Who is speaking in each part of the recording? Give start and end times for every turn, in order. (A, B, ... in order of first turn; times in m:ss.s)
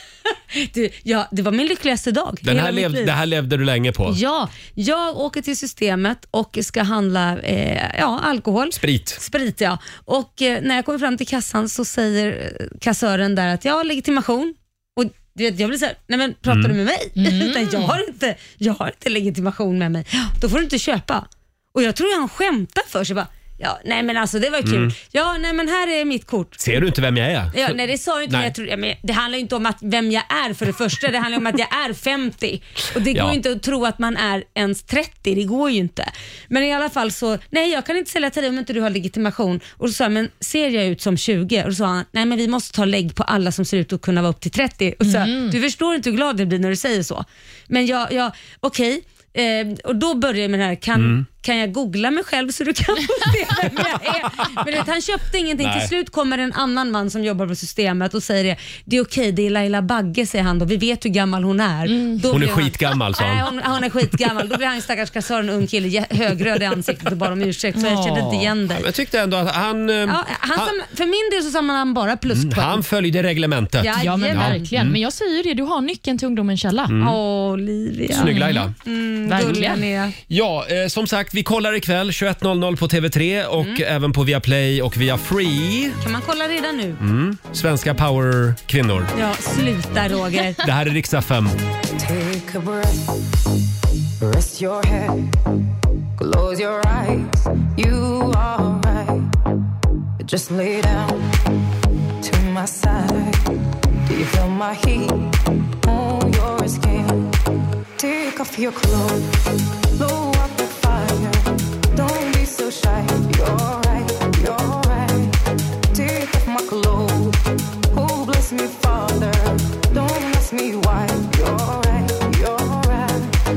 0:00.3-0:03.1 A
0:02.4-0:04.2 B
0:04.1-0:26.7 A
0:08.8-0:09.2 B
0:16.5-0:16.8 B
0:17.2-0:18.0 C
0:24.6-0:25.0 B
0:26.6-0:28.5 B
0:27.5-1:08.9 A
0:33.1-0:33.4 B
0:45.0-0:45.6 C
0:51.0-0:51.2 B
0:55.6-0:55.9 B
1:01.9-1:02.2 C
1:02.3-1:03.5 B
1:07.8-1:08.5 C
1:08.7-1:10.8 B
1:10.1-1:12.8 A
1:12.3-1:15.0 B
1:13.8-1:14.7 A
1:14.0-1:16.9 C
1:16.9-1:17.2 B
1:17.0-1:20.2 A
1:18.1-1:18.7 B
1:18.2-1:18.7 C
1:19.3-1:19.8 C
1:19.4-1:19.7 B
1:20.3-1:26.0 B
1:26.0-1:27.0 A
1:27.0-1:29.1 B
1:29.1-1:30.6 A
1:30.6-1:31.6 B
1:32.0-1:33.2 D
1:34.2-1:35.3 D
1:36.2-1:39.3 D
1:40.2-1:41.3 D
1:42.2-1:43.5 D
1:44.1-1:47.3 D
1:48.0-1:49.4 D
1:50.0-1:55.4 D
1:55.9-2:03.3 D